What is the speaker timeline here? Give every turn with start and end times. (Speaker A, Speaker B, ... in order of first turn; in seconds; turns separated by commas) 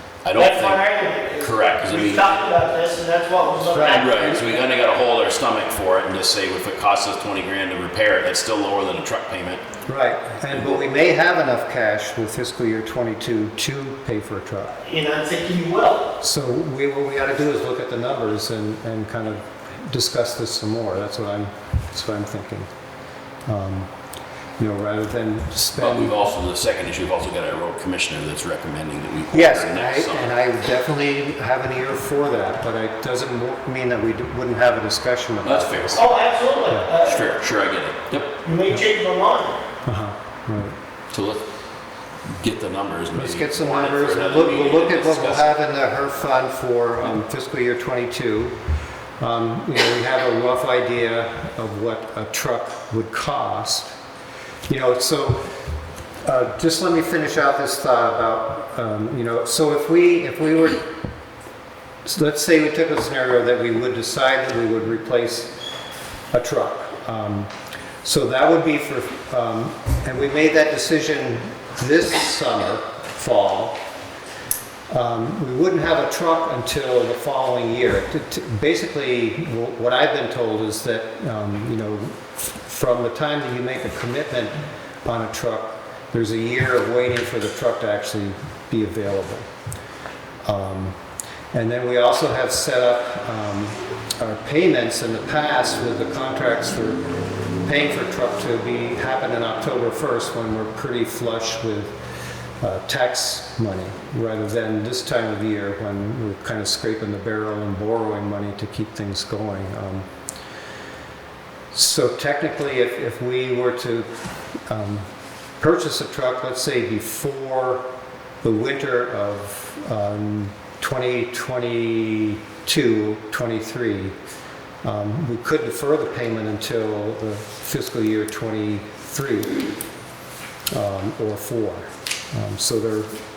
Speaker A: 0.2-0.8, Speaker B: 0.3-4.6, Speaker A: 1.4-2.5, Speaker C: 3.7-4.1, Speaker A: 3.7-9.7, Speaker C: 9.9-14.7, Speaker A: 10.5-10.8, Speaker B: 14.8-16.1, Speaker C: 16.2-22.7, Speaker C: 23.5-23.9, Speaker C: 24.6-26.2, Speaker A: 25.8-30.3, Speaker C: 29.3-36.0, Speaker A: 35.4-36.1, Speaker B: 35.9-37.3, Speaker A: 37.0-38.3, Speaker B: 38.4-39.6, Speaker C: 39.9-40.8, Speaker A: 41.1-41.5, Speaker A: 42.4-45.6, Speaker C: 43.1-48.5, Speaker C: 49.2-53.9, Speaker C: 54.7-55.4, Speaker C: 56.2-60.8, Speaker C: 62.0-65.6, Speaker C: 66.3-67.5, Speaker C: 68.0-73.8, Speaker C: 74.9-89.5, Speaker C: 90.5-91.0, Speaker C: 91.5-97.0, Speaker C: 97.6-102.0, Speaker C: 102.6-110.1, Speaker C: 111.7-114.1, Speaker C: 114.7-115.1, Speaker C: 115.6-117.8, Speaker C: 118.4-124.2, Speaker C: 124.8-129.7, Speaker C: 130.7-133.1